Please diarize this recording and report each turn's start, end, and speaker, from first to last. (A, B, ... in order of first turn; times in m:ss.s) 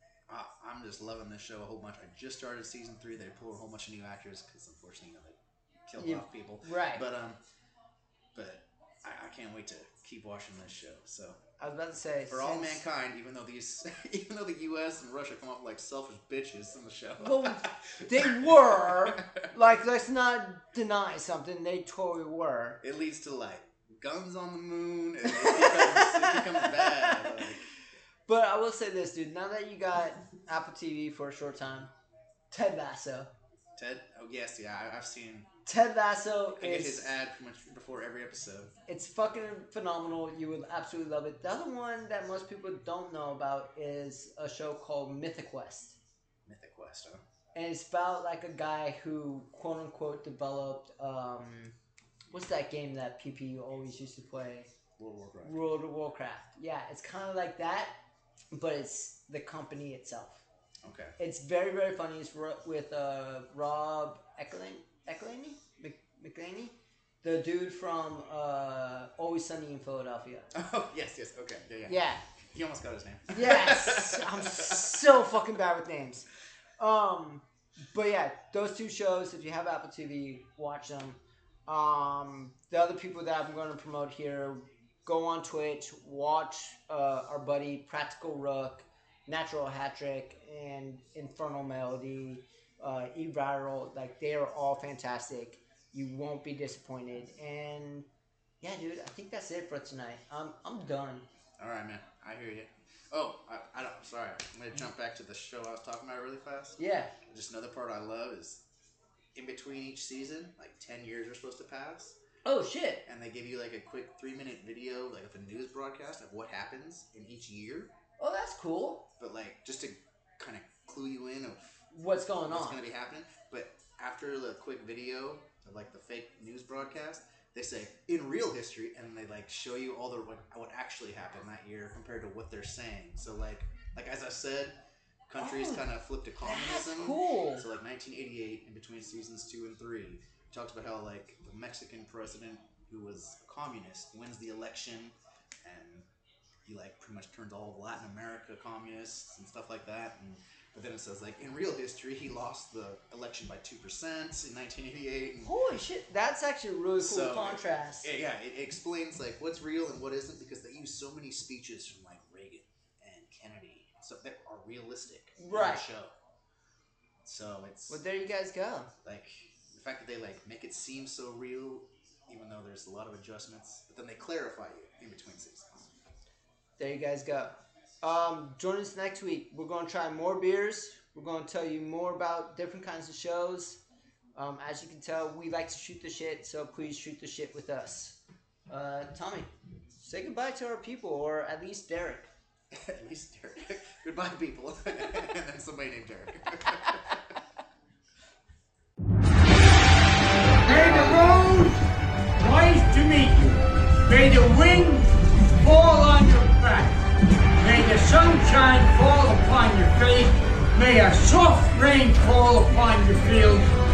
0:00.3-0:07.4 A
0:06.0-0:07.1 B
0:08.3-0:11.4 A
0:11.6-0:12.8 B
0:12.3-0:19.4 A
0:17.2-0:22.8 B
0:22.8-0:27.7 A
0:25.3-0:27.4 B
0:28.3-0:31.9 B
0:32.5-0:33.3 B
0:33.8-0:35.5 A
0:35.7-0:37.1 B
0:36.6-0:38.8 A
0:38.9-0:46.0 B
0:46.4-0:47.2 A
0:47.5-0:51.7 B
0:52.3-0:54.7 B
0:55.0-0:55.6 A
0:55.4-0:58.0 B
0:58.5-1:00.4 B
1:00.8-1:01.2 A
1:01.2-1:10.5 B
1:10.5-1:15.2 A
1:11.9-1:12.2 B
1:13.3-1:38.1 B
1:38.6-1:41.2 B
1:41.6-1:48.6 A
1:46.8-1:47.1 B
1:49.4-1:52.2 A
1:52.4-1:53.0 B
1:53.1-1:57.9 A
1:58.2-1:59.1 B
1:59.2-2:01.8 A
2:01.9-2:02.8 B
2:02.5-2:14.8 A
2:15.3-2:26.1 A
2:15.4-2:17.6 B
2:26.7-2:35.5 A
2:35.4-2:38.1 B
2:37.0-2:46.1 A
2:45.4-2:45.8 B
2:47.2-2:48.0 A
2:47.9-2:48.9 B
2:49.0-2:55.9 A
2:56.8-3:03.8 B
3:04.4-3:08.2 B
3:08.7-3:12.3 B
3:12.7-3:17.2 A
3:20.6-3:21.8 C
3:22.4-3:27.0 C
3:27.6-3:33.7 C